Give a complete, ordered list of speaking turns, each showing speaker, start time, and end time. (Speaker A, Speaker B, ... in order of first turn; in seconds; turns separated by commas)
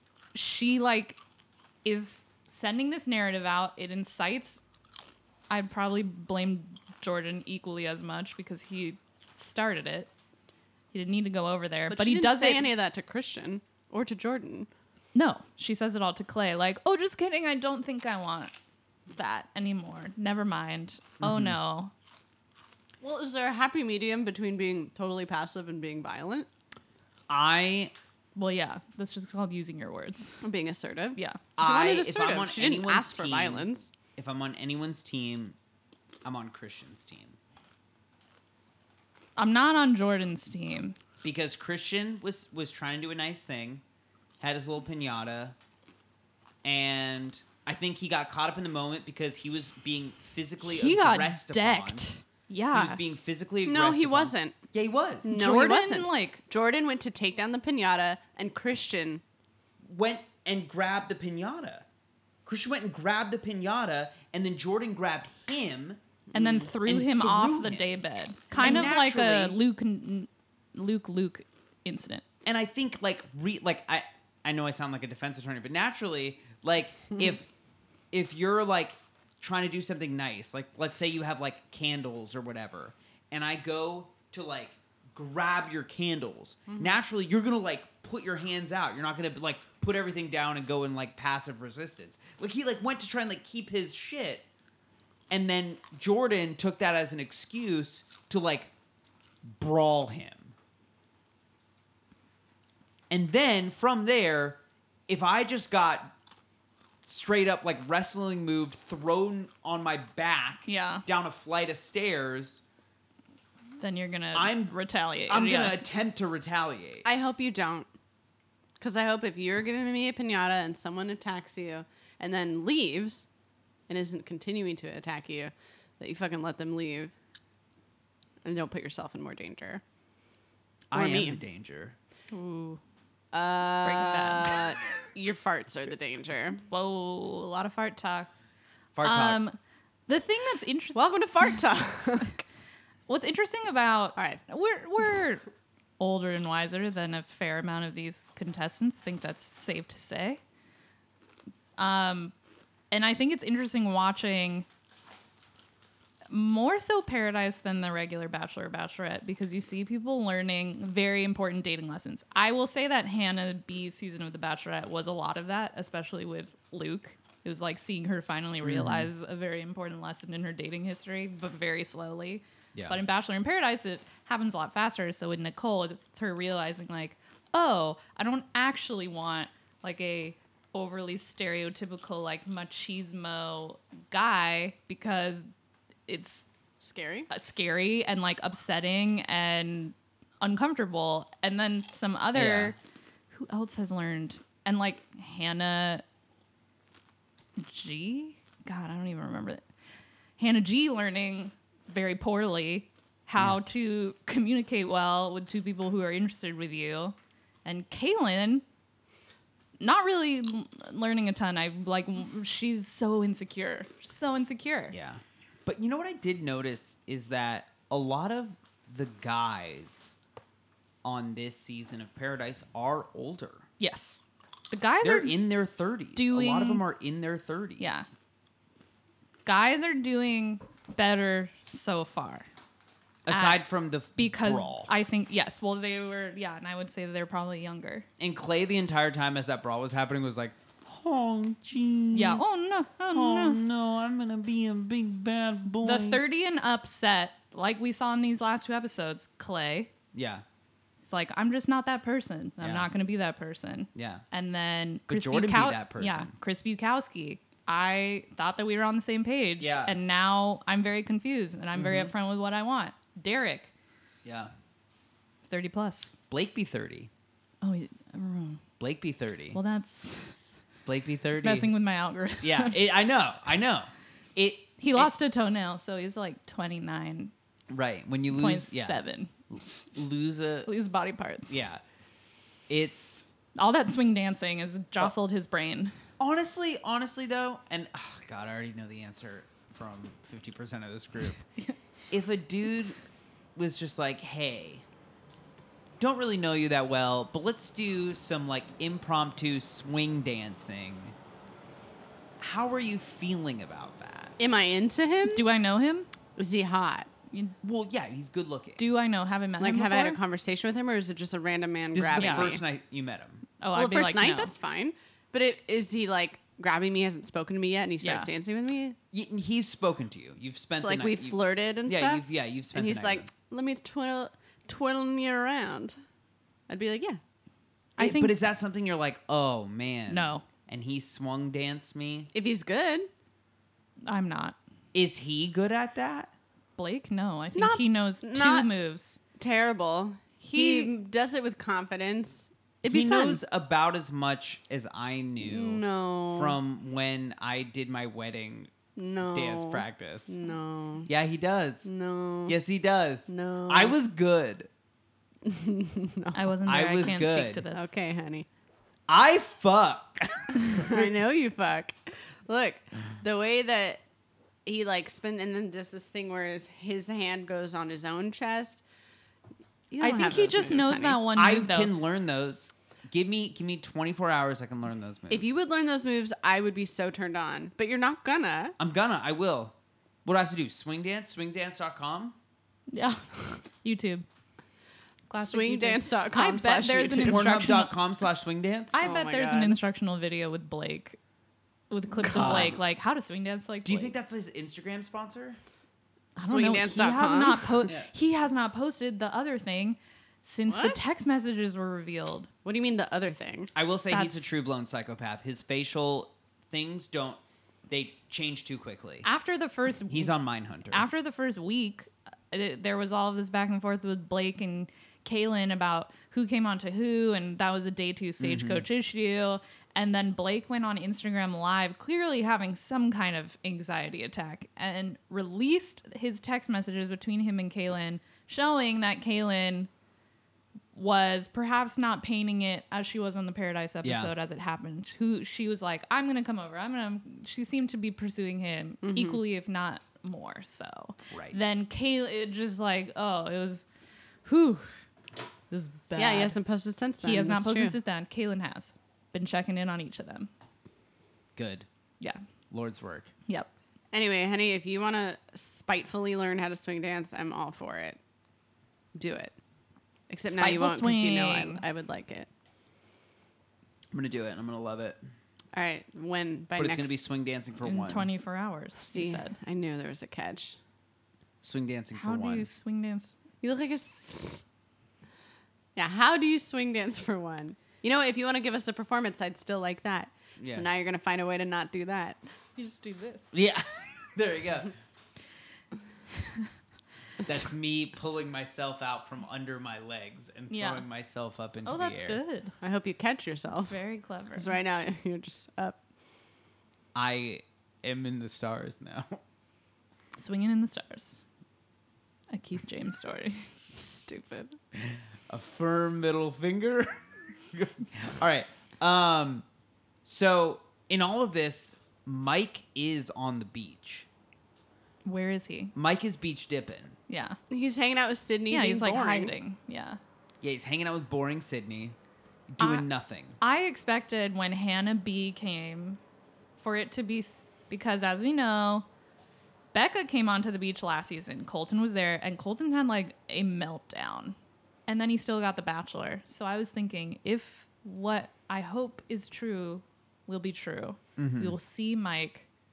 Speaker A: 0.3-1.2, Speaker A: 1.8-4.6, Speaker A: 5.5-10.1, Speaker A: 10.9-12.7, Speaker B: 11.9-14.7, Speaker A: 15.1-18.5, Speaker A: 19.1-21.9, Speaker C: 21.2-21.6, Speaker B: 23.0-26.5, Speaker C: 27.3-27.9, Speaker A: 28.4-30.4, Speaker B: 30.4-33.9, Speaker C: 31.6-35.6, Speaker C: 36.2-37.4, Speaker A: 39.4-41.0, Speaker C: 41.2-43.8, Speaker C: 44.4-45.6, Speaker C: 46.6-52.1, Speaker A: 50.6-53.0, Speaker C: 52.7-55.3, Speaker B: 53.6-54.6, Speaker B: 55.2-59.2, Speaker A: 55.3-56.4, Speaker C: 59.8-61.9, Speaker C: 62.5-66.0, Speaker A: 66.3-72.2, Speaker C: 66.8-67.9, Speaker C: 68.5-69.6, Speaker C: 72.5-77.5, Speaker C: 78.1-94.5, Speaker B: 86.7-87.0, Speaker C: 95.3-98.7, Speaker C: 99.5-100.5, Speaker C: 103.1-106.1, Speaker C: 107.0-112.6, Speaker A: 110.7-111.0, Speaker A: 113.8-115.8, Speaker C: 114.3-114.8, Speaker C: 115.3-117.1, Speaker B: 117.0-117.9, Speaker B: 118.8-123.3, Speaker B: 123.9-127.1, Speaker B: 128.4-129.8, Speaker C: 130.9-132.0, Speaker B: 130.9-131.4, Speaker A: 132.3-132.8, Speaker B: 133.3-136.6, Speaker A: 133.6-134.7, Speaker A: 136.7-138.3, Speaker C: 138.9-139.4, Speaker A: 139.0-141.1, Speaker B: 140.9-142.4, Speaker A: 143.1-145.5, Speaker B: 144.2-144.4, Speaker A: 146.0-150.4, Speaker A: 151.8-152.3, Speaker A: 152.9-154.7, Speaker A: 156.3-185.5, Speaker C: 168.6-169.1, Speaker A: 186.1-186.5, Speaker B: 186.8-187.3, Speaker A: 187.3-192.8, Speaker C: 192.3-192.8, Speaker A: 193.3-196.0, Speaker A: 197.6-199.6, Speaker A: 200.4-208.6, Speaker A: 209.8-215.0, Speaker C: 214.9-220.1, Speaker C: 221.0-223.7, Speaker A: 223.8-225.4, Speaker C: 225.0-228.1, Speaker A: 226.2-226.8, Speaker A: 227.8-228.1, Speaker A: 229.4-232.5, Speaker C: 233.3-234.9, Speaker A: 233.3-233.6, Speaker A: 234.2-238.1, Speaker C: 238.2-242.4, Speaker A: 242.1-243.6, Speaker C: 243.1-246.2, Speaker A: 245.8-249.9, Speaker C: 250.1-250.4, Speaker A: 251.0-263.7, Speaker C: 252.6-252.9, Speaker C: 253.9-254.2, Speaker C: 255.1-256.3, Speaker C: 259.6-260.0, Speaker C: 261.8-262.1, Speaker C: 264.2-264.5, Speaker A: 265.5-266.1, Speaker C: 266.3-267.1, Speaker A: 267.6-268.6, Speaker C: 268.8-269.6, Speaker A: 269.5-270.3, Speaker C: 270.9-271.7, Speaker A: 271.3-272.8, Speaker C: 272.4-275.1, Speaker A: 274.8-277.3, Speaker C: 277.7-279.0, Speaker A: 278.3-279.3, Speaker C: 279.5-280.7, Speaker A: 280.7-281.7, Speaker C: 281.5-281.8, Speaker C: 282.7-283.3, Speaker A: 283.6-285.9, Speaker C: 286.2-291.4, Speaker C: 292.1-293.0, Speaker C: 293.6-294.8, Speaker C: 296.0-301.1, Speaker C: 302.4-304.4, Speaker B: 304.4-305.5, Speaker A: 305.3-306.1, Speaker B: 306.4-307.1, Speaker C: 307.6-308.8, Speaker A: 308.8-310.2, Speaker B: 309.6-312.6, Speaker C: 311.9-313.4, Speaker A: 312.2-312.5, Speaker A: 313.6-314.5, Speaker B: 313.7-319.0, Speaker A: 318.0-318.3, Speaker C: 319.1-323.3, Speaker B: 320.8-326.0, Speaker B: 326.7-327.2, Speaker A: 328.0-328.4, Speaker C: 328.0-332.3, Speaker A: 330.1-330.5, Speaker B: 332.3-333.1, Speaker A: 334.0-334.6, Speaker C: 334.9-336.3, Speaker A: 336.8-339.2, Speaker B: 337.6-338.7, Speaker B: 339.4-343.4, Speaker A: 340.4-340.9, Speaker C: 342.9-348.7, Speaker B: 345.4-346.6, Speaker B: 349.0-351.1, Speaker C: 349.3-350.3, Speaker C: 351.1-351.9, Speaker B: 351.9-352.6, Speaker C: 352.5-354.7, Speaker B: 353.3-354.0, Speaker B: 355.4-356.5, Speaker A: 356.3-358.0, Speaker C: 356.7-357.6, Speaker B: 357.7-358.5, Speaker C: 359.1-361.1, Speaker B: 360.6-364.0, Speaker B: 364.7-368.8, Speaker B: 369.9-371.3, Speaker A: 370.0-372.0, Speaker C: 371.3-375.6, Speaker B: 375.3-378.8, Speaker C: 378.8-382.4, Speaker A: 382.9-384.2, Speaker A: 385.3-388.0, Speaker B: 385.3-387.6, Speaker C: 387.2-389.0, Speaker A: 388.9-391.2, Speaker B: 389.0-389.8, Speaker A: 391.9-394.1, Speaker B: 392.2-392.8, Speaker C: 392.4-392.8, Speaker C: 393.9-395.6, Speaker A: 396.4-402.5, Speaker B: 396.4-397.9, Speaker B: 400.7-401.0, Speaker B: 402.6-403.7, Speaker C: 403.8-409.3, Speaker A: 404.1-404.4, Speaker A: 409.2-410.4, Speaker C: 410.1-411.1, Speaker A: 410.9-429.9, Speaker C: 418.4-418.9, Speaker A: 430.9-443.9, Speaker C: 434.0-434.3, Speaker B: 439.0-439.4, Speaker C: 441.3-441.6, Speaker A: 444.4-444.9, Speaker A: 445.7-446.6, Speaker B: 446.2-448.0, Speaker A: 447.2-450.5, Speaker C: 451.6-451.9, Speaker C: 452.7-453.3, Speaker B: 454.1-458.2, Speaker B: 459.1-459.5, Speaker B: 460.3-462.5, Speaker A: 460.5-461.8, Speaker C: 464.1-465.2, Speaker B: 465.7-467.2, Speaker C: 466.8-468.3, Speaker A: 467.8-469.6, Speaker B: 469.0-470.8, Speaker C: 471.6-472.7, Speaker A: 472.1-473.4, Speaker B: 473.6-474.6, Speaker B: 476.0-482.4, Speaker C: 480.6-480.9, Speaker A: 482.8-483.5, Speaker C: 483.5-484.9, Speaker C: 487.4-492.4, Speaker A: 490.7-491.1, Speaker A: 491.9-492.7, Speaker B: 492.8-494.0, Speaker A: 493.8-494.8, Speaker B: 494.6-496.0, Speaker C: 497.1-499.4, Speaker A: 500.4-501.4, Speaker A: 502.5-503.7, Speaker B: 504.0-504.8, Speaker C: 504.9-509.6, Speaker C: 510.2-514.3, Speaker A: 515.2-515.9, Speaker C: 516.0-517.2, Speaker A: 517.3-517.6, Speaker B: 517.7-519.5, Speaker A: 518.7-520.2, Speaker C: 520.6-522.2, Speaker C: 522.7-523.6, Speaker A: 522.8-523.1, Speaker A: 523.6-526.2, Speaker A: 526.8-529.1, Speaker A: 529.9-534.6, Speaker A: 535.1-542.7, Speaker C: 541.4-541.8